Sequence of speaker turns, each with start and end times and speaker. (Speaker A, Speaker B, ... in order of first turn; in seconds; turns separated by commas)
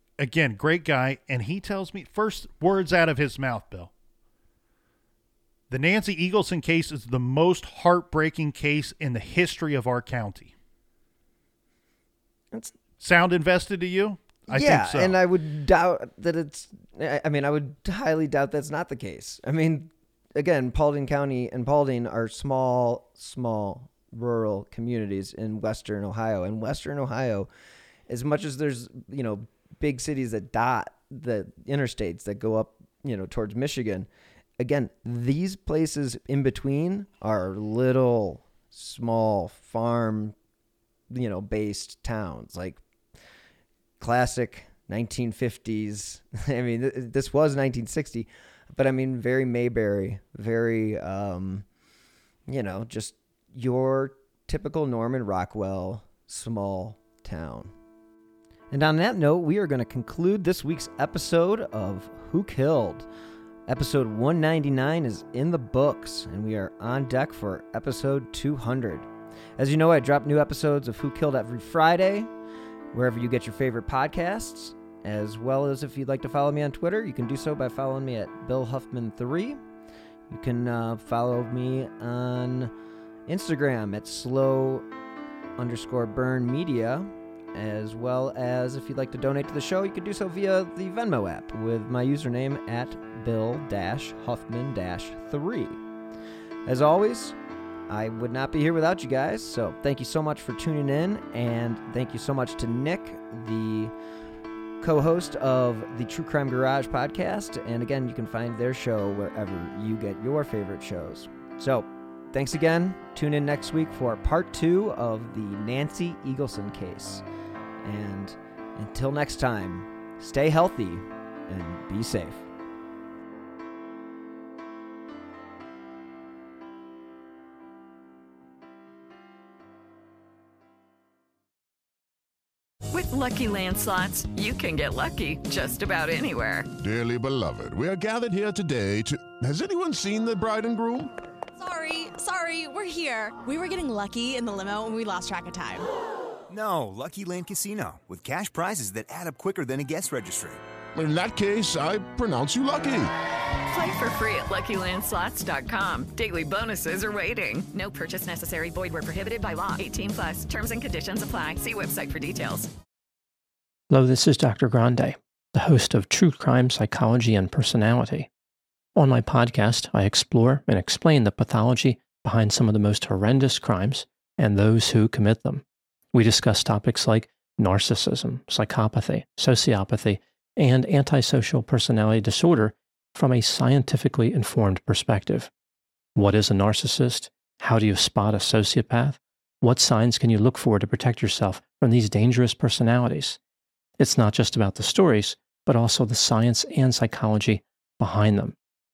Speaker A: 0.2-3.9, Speaker A: 5.7-10.5, Speaker A: 13.0-15.2, Speaker B: 14.5-27.5, Speaker B: 28.1-34.1, Speaker B: 34.6-40.4, Speaker B: 41.1-42.8, Speaker B: 44.0-51.6, Speaker B: 52.5-57.7, Speaker B: 58.7-63.1, Speaker B: 63.7-72.3, Speaker B: 72.9-79.6, Speaker B: 80.3-82.7, Speaker B: 83.3-84.9, Speaker B: 85.6-95.8, Speaker B: 96.7-97.4, Speaker B: 97.9-103.9, Speaker B: 104.8-117.2, Speaker B: 117.8-122.5, Speaker C: 132.9-136.7, Speaker D: 136.8-141.1, Speaker E: 141.6-145.9, Speaker F: 146.5-150.6, Speaker D: 150.9-153.1, Speaker C: 153.7-162.7, Speaker G: 163.9-168.3, Speaker G: 168.9-185.5, Speaker G: 186.2-193.4, Speaker G: 194.0-198.6